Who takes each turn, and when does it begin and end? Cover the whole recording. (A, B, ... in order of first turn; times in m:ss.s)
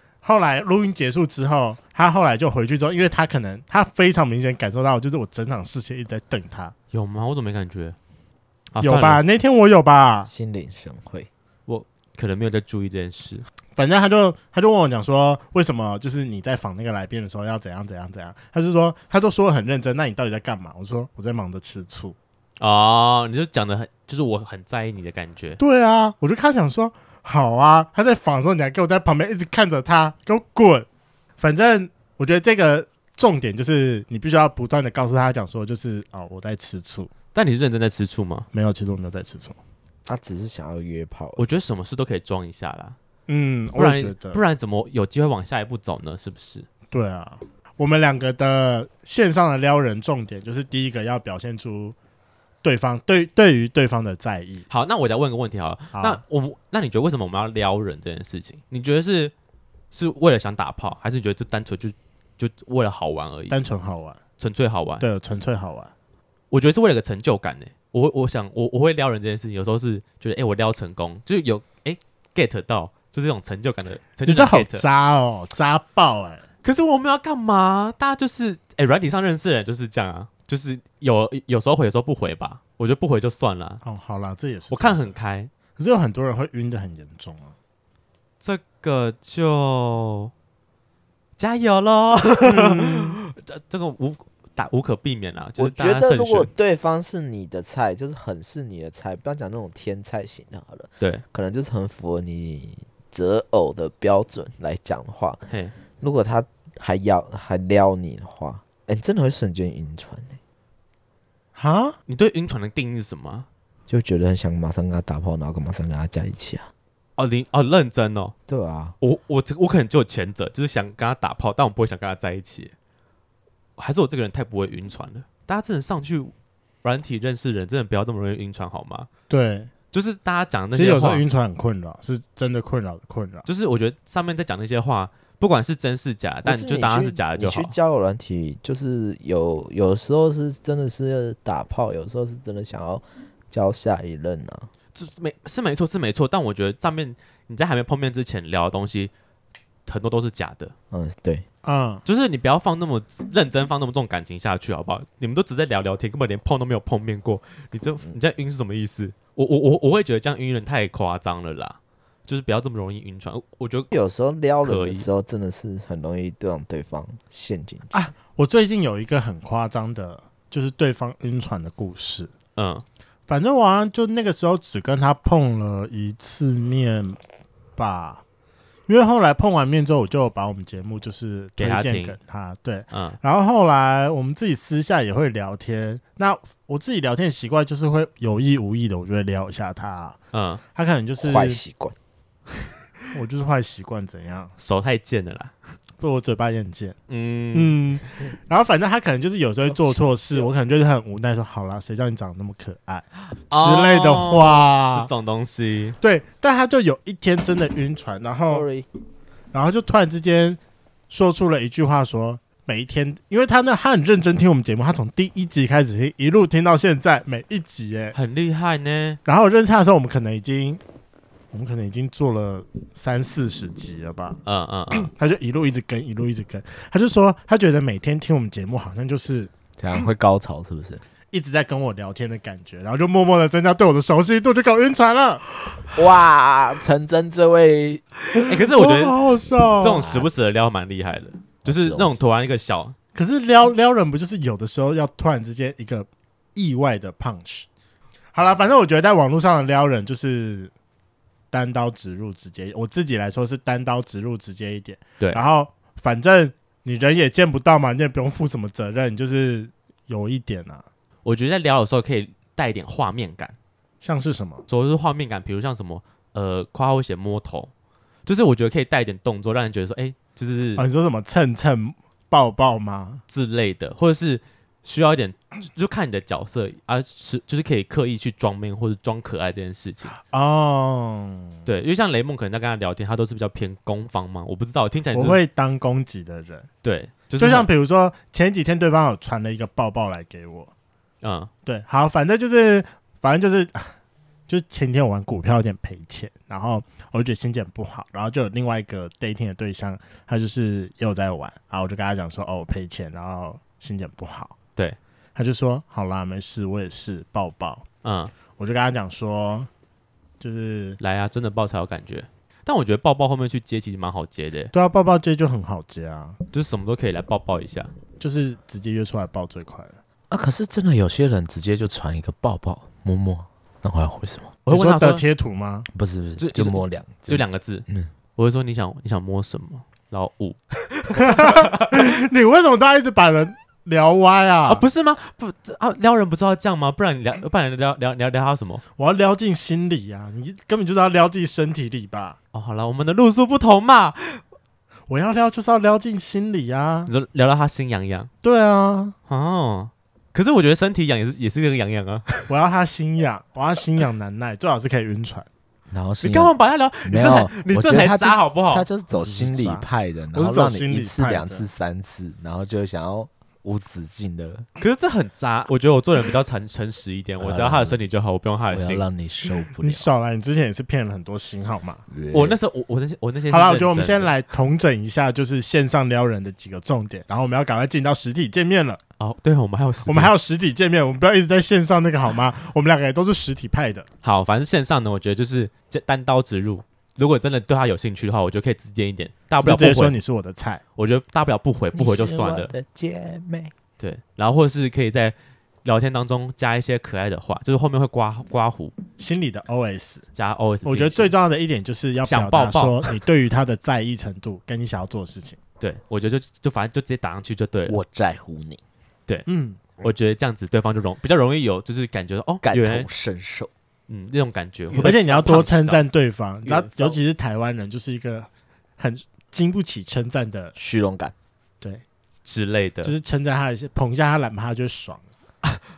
0:00.2-0:06.7 A
0:06.9-0:08.0 B
0:08.7-0:09.2 B
0:08.8-0:10.3 A
0:10.2-0:11.3 C
0:11.7-0:13.4 B
0:13.8-0:22.2 A
0:22.6-0:25.6 B
0:25.6-0:30.9 A
0:31.4-0:37.1 A
0:37.3-0:38.5 B
0:38.5-0:39.6 A
0:40.0-0:41.4 C
0:41.4-0:43.0 B
0:43.3-0:44.4 A
0:43.7-0:46.7 B
0:46.9-0:52.0 A
0:52.6-0:54.7 A
0:54.7-0:59.3 B
0:55.9-0:56.2 A
0:59.9-1:03.6 B
1:03.5-1:04.2 A
1:04.4-1:05.0 B
1:05.0-1:05.9 A
1:06.5-1:14.8 B
1:14.2-1:16.4 A
1:16.6-1:23.8 B
1:23.8-1:25.1 A
1:24.7-1:25.5 B
1:25.8-1:27.5 A
1:28.4-1:30.3 B
1:31.4-1:36.5 B
1:32.4-1:33.2 A
1:35.6-1:45.4 C
1:45.5-1:45.7 B
1:46.0-1:50.4 C
1:51.6-1:52.0 A
1:52.1-1:53.5 B
1:53.9-1:56.7 C
1:57.2-1:58.3 B
1:58.5-1:58.9 C
1:59.0-2:02.7 B
2:03.8-2:06.3 B
2:06.8-2:09.1 B
2:09.3-2:09.7 A
2:09.9-2:11.2 B
2:10.7-2:13.4 A
2:13.4-2:17.7 B
2:16.4-2:24.7 C
2:24.9-2:29.1 B
2:29.8-2:30.7 B
2:30.9-2:31.4 C
2:31.6-2:32.0 A
2:32.0-2:43.9 B
2:43.9-2:48.1 C
2:44.6-2:45.1 B
2:47.9-2:52.3 A
2:52.6-2:52.8 B
2:53.3-2:57.2 A
2:57.8-2:58.2 A
2:58.9-3:10.2 A
3:01.6-3:02.2 B
3:02.9-3:03.2 B
3:10.3-3:10.6 B
3:10.7-3:11.6 A
3:11.2-3:12.0 C
3:13.1-3:14.5 A
3:14.6-3:15.5 B
3:16.0-3:17.0 A
3:17.1-3:17.8 B
3:17.5-3:25.1 A
3:23.5-3:26.0 B
3:26.0-3:28.6 A
3:28.4-3:28.8 C
3:29.5-3:38.2 A
3:38.1-3:39.2 B
3:39.2-3:40.8 A
3:41.5-3:44.4 A
3:44.4-3:45.1 B
3:44.9-3:49.5 A
3:49.8-3:51.0 C
3:51.3-3:55.4 A
3:55.9-3:58.0 C
3:58.3-4:00.1 A
3:58.4-3:59.2 B
3:59.8-4:02.9 B
3:59.9-4:00.3 C
4:01.6-4:02.2 C
4:03.1-4:07.7 A
4:08.3-4:10.7 A
4:11.5-4:20.8 A
4:21.2-4:23.6 B
4:24.0-4:24.6 A
4:24.7-4:27.7 B
4:28.2-4:30.8 B
4:30.8-4:33.2 A
4:33.3-4:40.2 B
4:40.2-4:41.6 A
4:41.6-4:45.4 B
4:45.1-4:46.7 A
4:46.8-4:47.7 B
4:47.4-4:50.7 A
4:51.2-4:51.5 B
4:51.6-4:53.9 A
4:54.5-5:04.5 A
5:05.4-5:07.8 A
5:08.0-5:08.3 B
5:08.6-5:09.7 A
5:10.4-5:11.0 A
5:11.0-5:14.7 B
5:14.7-5:16.4 A
5:16.5-5:17.9 B
5:18.2-5:20.0 A
5:20.3-5:24.5 C
5:24.6-5:25.2 B
5:24.7-5:25.9 A
5:25.9-5:28.1 C
5:26.4-5:32.0 B
5:31.2-5:34.8 A
5:34.7-5:38.8 B
5:39.0-5:42.4 A
5:42.5-5:44.4 B
5:45.1-5:47.1 A
5:47.1-5:48.3 B
5:48.4-5:49.1 A
5:49.3-5:52.5 B
5:52.5-5:55.5 A
5:55.9-5:56.5 C
5:56.2-5:58.9 B
5:57.0-6:04.6 C
5:59.1-6:01.6 A
6:04.8-6:09.0 B
6:07.4-6:08.0 C
6:08.7-6:10.1 C
6:09.8-6:12.0 A
6:12.1-6:12.6 C
6:12.3-6:14.3 B
6:13.5-6:19.0 A
6:19.2-6:20.3 B
6:20.0-6:24.1 A
6:24.2-6:30.1 B
6:29.6-6:30.8 A
6:31.0-6:32.7 B
6:31.9-6:33.7 C
6:34.0-6:38.9 B
6:39.2-6:40.2 A
6:40.3-6:41.3 B
6:40.8-6:45.6 A
6:42.2-6:43.1 B
6:45.8-6:48.0 B
6:47.9-6:48.8 C
6:49.5-6:50.1 A
6:50.0-6:53.1 B
6:52.6-6:53.7 C
6:54.1-6:56.0 B
6:54.9-6:55.6 C
6:55.0-6:58.5 A
6:56.6-6:57.2 C
6:59.0-7:00.7 A
7:00.8-7:01.3 C
7:02.4-7:03.1 B
7:03.0-7:05.2 A